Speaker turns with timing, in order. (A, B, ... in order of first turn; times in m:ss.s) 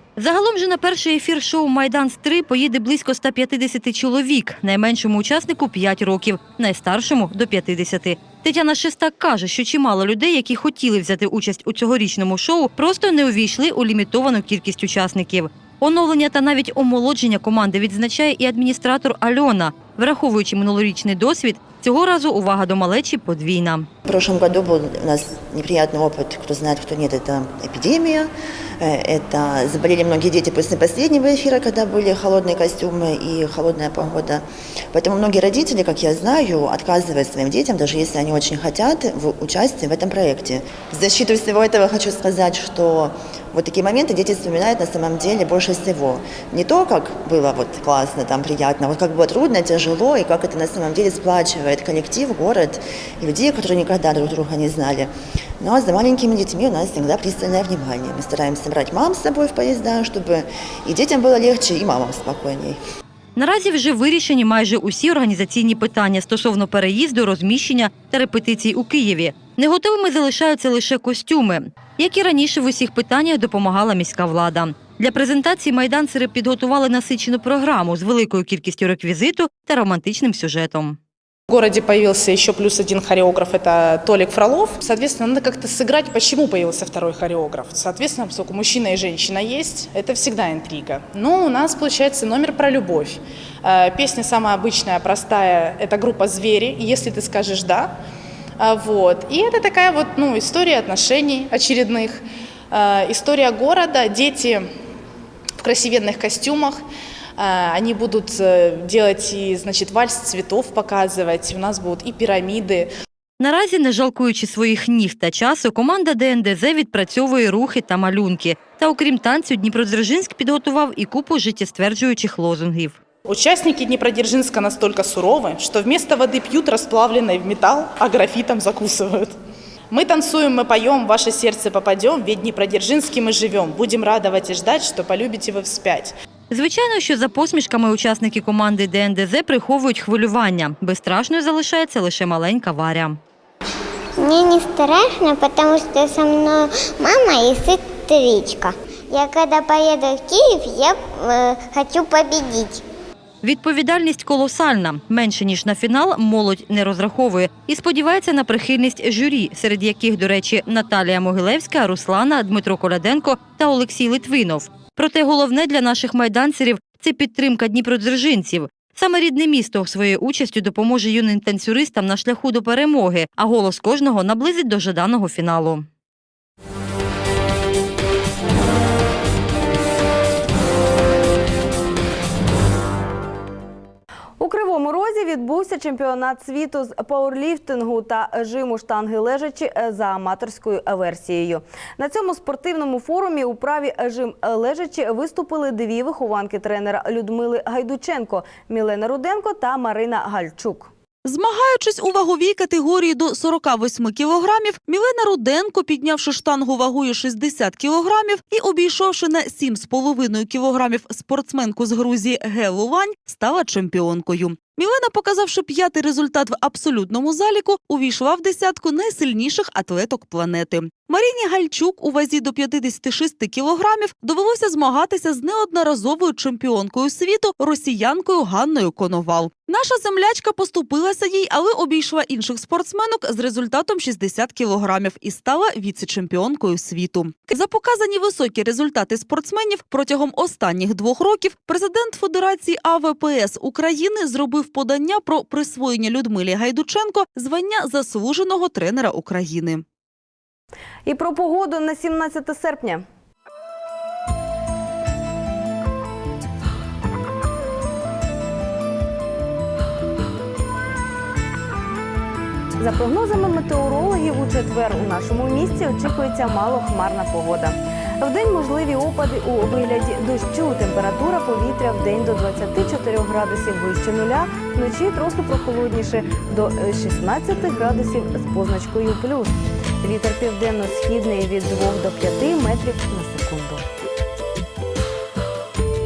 0:00.2-0:23.9 A
0:24.1-1:02.8 B
1:03.4-1:21.0 A
1:21.5-1:37.9 C
1:38.6-1:44.7 C
1:45.6-1:46.8 C
1:47.4-1:52.9 C
1:53.4-2:03.0 A
2:03.2-2:09.3 C
2:09.9-2:16.1 C
2:16.5-2:23.2 A
2:24.2-2:32.8 D
2:33.4-2:55.8 A
3:04.4-3:20.9 E
3:21.2-4:09.8 F
4:11.0-4:13.0 E
4:22.8-4:43.8 E